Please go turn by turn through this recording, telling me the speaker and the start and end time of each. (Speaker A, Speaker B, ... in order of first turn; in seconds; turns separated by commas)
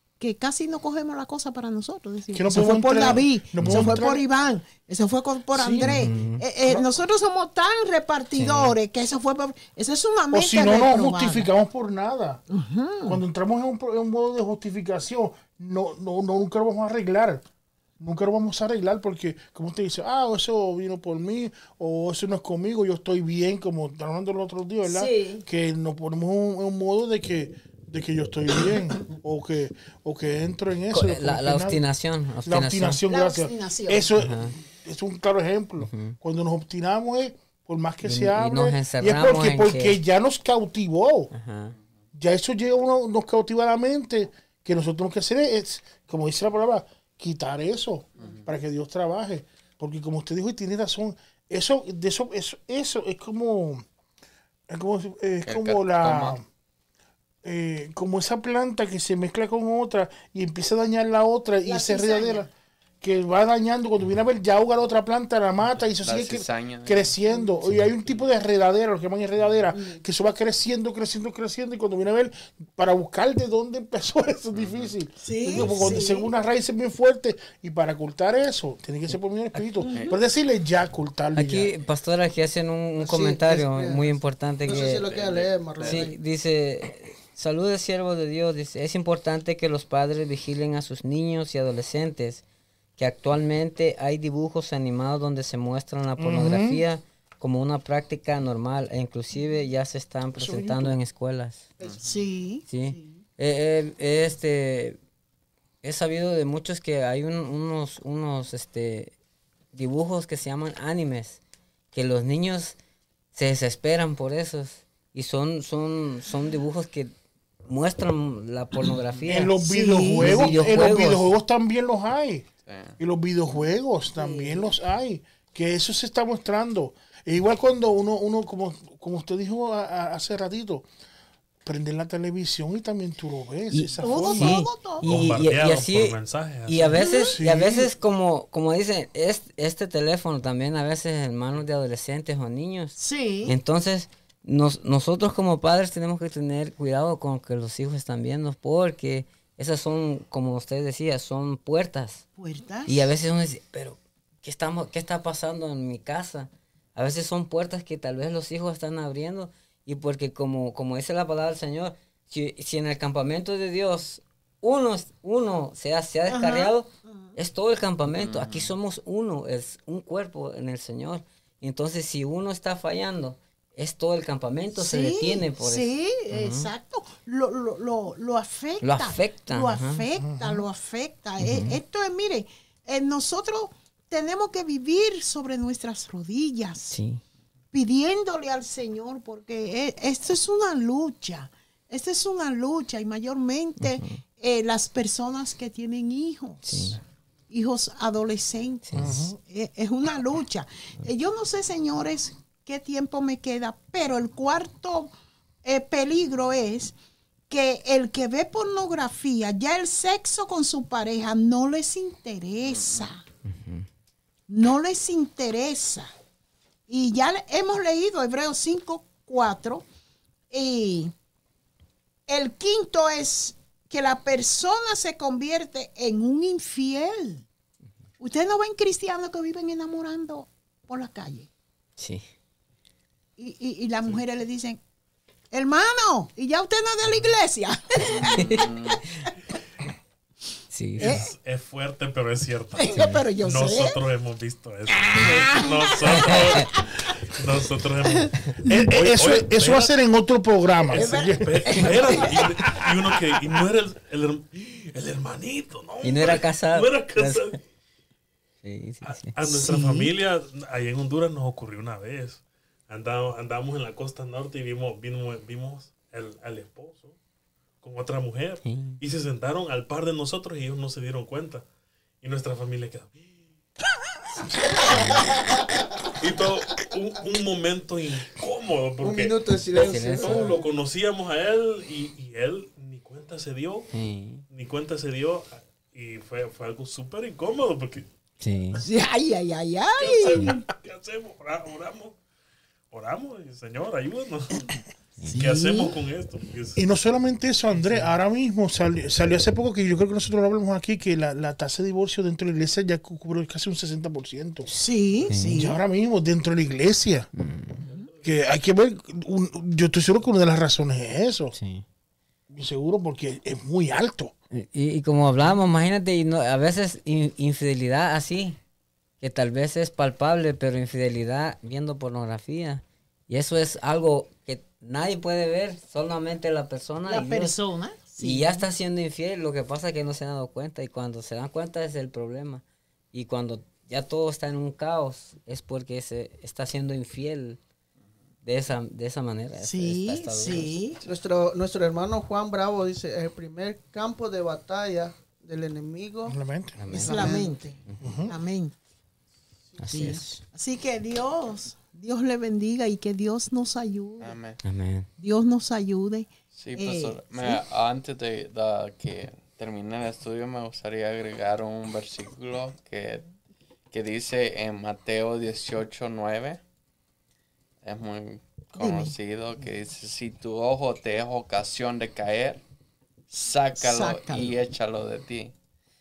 Speaker A: 0.2-11.5, Speaker B: 2.3-4.2, Speaker C: 3.6-4.0, Speaker B: 5.5-7.0, Speaker C: 5.8-6.5, Speaker C: 8.3-8.8, Speaker B: 10.3-12.4, Speaker A: 12.5-13.2, Speaker B: 13.1-17.4, Speaker B: 18.0-31.8, Speaker A: 24.9-25.4, Speaker C: 30.9-33.0, Speaker B: 32.4-41.3, Speaker A: 33.1-34.1, Speaker C: 34.2-34.6, Speaker C: 35.8-36.1, Speaker C: 38.0-40.0, Speaker C: 41.3-41.8, Speaker B: 42.1-53.9, Speaker D: 48.2-48.5, Speaker B: 54.7-56.4, Speaker D: 55.5-56.4, Speaker B: 57.4-62.5, Speaker A: 61.6-62.5, Speaker B: 63.0-81.7, Speaker D: 66.0-67.1, Speaker A: 69.7-70.0, Speaker D: 74.5-74.9, Speaker A: 75.2-76.3, Speaker A: 79.8-80.2, Speaker C: 81.3-85.0, Speaker E: 83.0-86.2, Speaker D: 84.9-86.1, Speaker C: 85.8-92.4, Speaker C: 93.0-101.7, Speaker B: 96.2-96.8, Speaker B: 100.3-101.0, Speaker A: 101.8-103.2, Speaker D: 101.8-102.2, Speaker C: 102.7-105.0, Speaker C: 105.8-109.1, Speaker C: 109.7-111.4, Speaker C: 111.9-112.8, Speaker C: 113.3-117.1, Speaker C: 117.6-121.3, Speaker B: 119.3-130.9, Speaker A: 119.6-120.7, Speaker D: 122.7-123.0, Speaker A: 124.2-124.6, Speaker B: 131.6-134.6, Speaker C: 133.7-152.2, Speaker A: 134.0-135.1, Speaker F: 135.0-137.1, Speaker A: 136.9-137.4, Speaker B: 137.3-138.0, Speaker A: 143.0-143.6, Speaker A: 152.4-153.1, Speaker C: 152.9-176.7, Speaker A: 166.3-167.4, Speaker D: 168.2-168.7, Speaker A: 174.8-187.0, Speaker C: 178.8-180.1, Speaker B: 180.2-180.7, Speaker C: 181.4-181.8, Speaker C: 186.9-187.2, Speaker A: 187.7-197.0, Speaker C: 193.8-194.2, Speaker C: 196.6-197.0, Speaker A: 197.5-205.1, Speaker C: 198.9-199.3, Speaker B: 199.0-199.4, Speaker A: 205.6-206.9, Speaker A: 207.5-213.2, Speaker D: 212.7-213.1, Speaker C: 213.5-213.9, Speaker A: 214.5-216.1, Speaker A: 216.9-219.8, Speaker A: 220.5-221.1, Speaker A: 222.3-227.4, Speaker A: 228.2-231.5, Speaker C: 232.0-232.2, Speaker A: 233.4-234.8, Speaker A: 235.5-238.7, Speaker D: 238.1-239.0, Speaker C: 238.3-238.7, Speaker C: 240.7-241.2, Speaker A: 241.0-241.3, Speaker F: 241.0-249.9, Speaker A: 242.8-244.0, Speaker A: 244.9-247.1, Speaker C: 246.2-246.6, Speaker B: 248.7-252.9, Speaker F: 250.9-257.6, Speaker A: 250.9-252.4, Speaker C: 256.0-257.6, Speaker C: 258.6-260.1, Speaker F: 259.0-267.2, Speaker F: 267.8-271.6, Speaker C: 268.6-269.0, Speaker F: 272.2-273.3, Speaker F: 274.6-283.9, Speaker C: 274.9-275.4, Speaker E: 279.0-280.6, Speaker C: 279.7-280.6, Speaker C: 283.9-284.4, Speaker F: 284.5-288.1, Speaker C: 288.4-288.8, Speaker A: 288.8-290.6, Speaker F: 290.0-292.2, Speaker F: 292.9-296.8, Speaker A: 295.2-296.0, Speaker B: 296.8-304.7, Speaker A: 304.7-305.8, Speaker C: 305.3-305.6, Speaker B: 305.5-307.3, Speaker C: 307.4-307.9, Speaker B: 308.2-311.6, Speaker C: 311.5-311.9, Speaker B: 312.5-314.3, Speaker C: 314.5-318.6, Speaker C: 319.2-327.6, Speaker A: 327.1-328.6, Speaker C: 328.2-337.6, Speaker C: 338.4-340.8, Speaker A: 339.6-341.0, Speaker E: 341.0-346.4, Speaker B: 346.3-346.8, Speaker C: 346.8-348.1, Speaker A: 346.9-347.8, Speaker E: 346.9-347.8, Speaker B: 348.0-348.3, Speaker A: 348.3-348.7, Speaker C: 349.8-350.4, Speaker A: 349.8-354.4, Speaker D: 354.2-354.6, Speaker C: 354.6-355.1, Speaker A: 355.2-357.6, Speaker D: 356.5-363.2, Speaker D: 363.9-366.6, Speaker D: 367.8-372.6, Speaker A: 368.8-369.1, Speaker D: 373.3-375.5, Speaker A: 373.8-374.6